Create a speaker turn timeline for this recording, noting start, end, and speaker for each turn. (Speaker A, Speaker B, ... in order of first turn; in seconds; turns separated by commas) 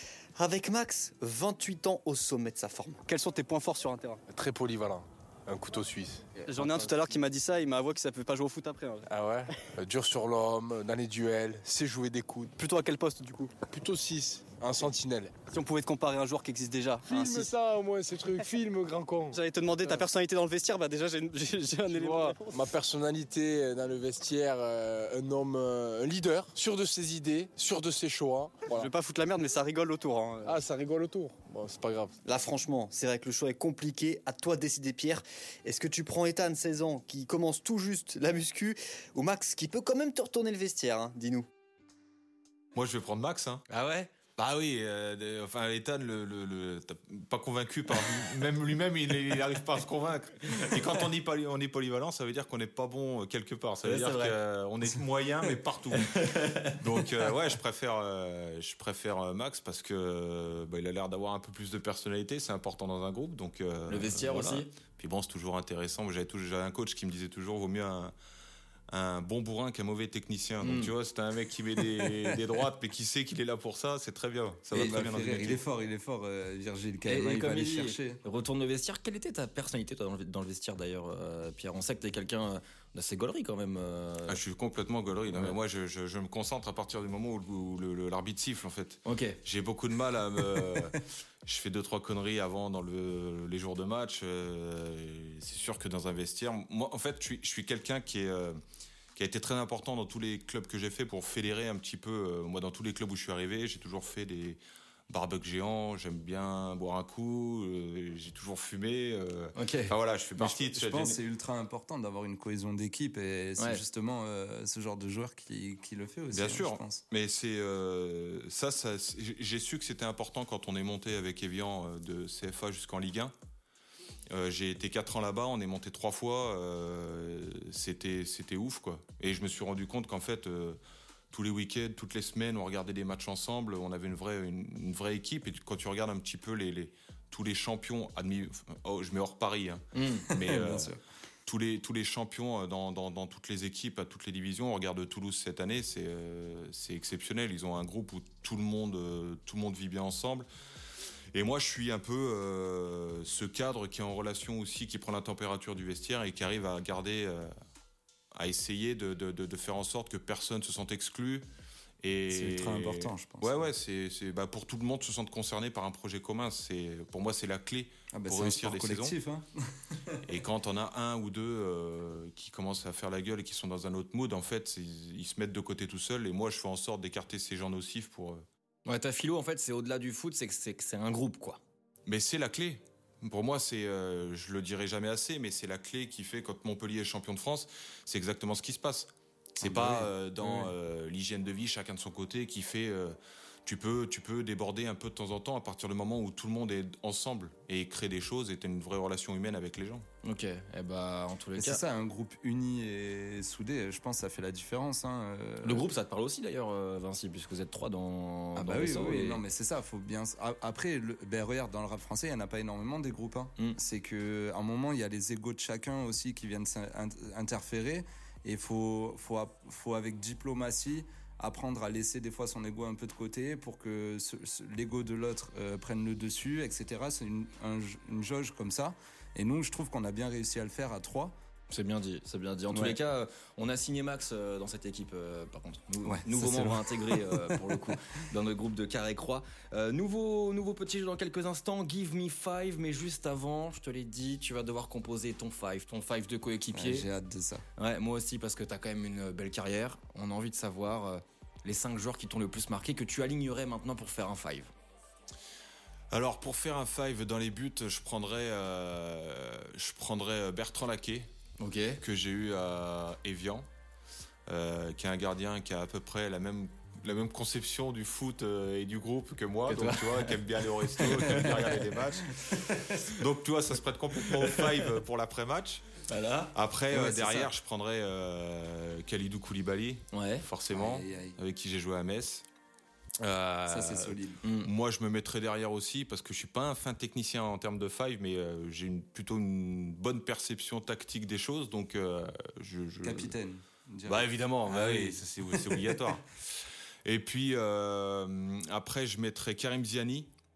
Speaker A: 0.3-3.0, Speaker B: 3.1-4.2, Speaker C: 4.3-7.0, Speaker B: 6.5-9.1, Speaker C: 9.1-12.5, Speaker B: 12.6-13.5, Speaker C: 13.7-15.3, Speaker B: 15.5-17.5, Speaker C: 17.0-20.0, Speaker B: 19.3-22.6, Speaker C: 21.9-28.9, Speaker B: 28.7-30.6, Speaker C: 30.4-32.2, Speaker A: 32.2-41.5, Speaker D: 42.7-43.6, Speaker E: 43.7-44.1, Speaker D: 44.4-68.1, Speaker E: 50.5-50.8, Speaker E: 53.8-54.4, Speaker E: 56.0-56.8, Speaker E: 63.9-64.7, Speaker D: 68.9-75.6, Speaker E: 70.6-70.9, Speaker F: 74.7-78.2, Speaker E: 77.1-84.4, Speaker D: 84.3-98.6, Speaker E: 89.0-89.4, Speaker D: 99.2-111.2, Speaker E: 109.5-109.9, Speaker F: 110.4-117.0, Speaker D: 116.3-123.3, Speaker D: 124.3-130.8, Speaker D: 131.3-140.9, Speaker E: 139.9-140.3, Speaker F: 140.3-141.0, Speaker D: 141.4-150.5, Speaker D: 151.3-157.5, Speaker D: 158.3-161.4, Speaker D: 162.0-169.2, Speaker F: 162.3-163.7, Speaker F: 168.1-170.2, Speaker D: 170.2-178.4, Speaker E: 178.8-181.6, Speaker D: 182.1-200.1, Speaker F: 189.6-190.7, Speaker E: 200.2-201.8, Speaker F: 201.6-205.8, Speaker E: 205.6-209.4, Speaker F: 208.5-231.3, Speaker E: 231.7-247.1, Speaker F: 232.7-233.0, Speaker F: 236.0-237.9, Speaker F: 246.7-247.6, Speaker E: 247.8-254.7, Speaker D: 256.1-261.3, Speaker E: 261.6-262.0, Speaker D: 262.0-263.6, Speaker D: 264.5-275.9, Speaker E: 269.7-271.8, Speaker F: 272.4-273.0, Speaker E: 276.1-276.5, Speaker D: 276.5-282.4, Speaker F: 276.9-277.5, Speaker E: 280.1-280.4, Speaker F: 280.7-281.4, Speaker E: 283.2-284.7, Speaker F: 283.7-284.4, Speaker D: 284.6-293.3, Speaker F: 293.0-295.9, Speaker D: 294.1-296.3, Speaker D: 297.0-300.3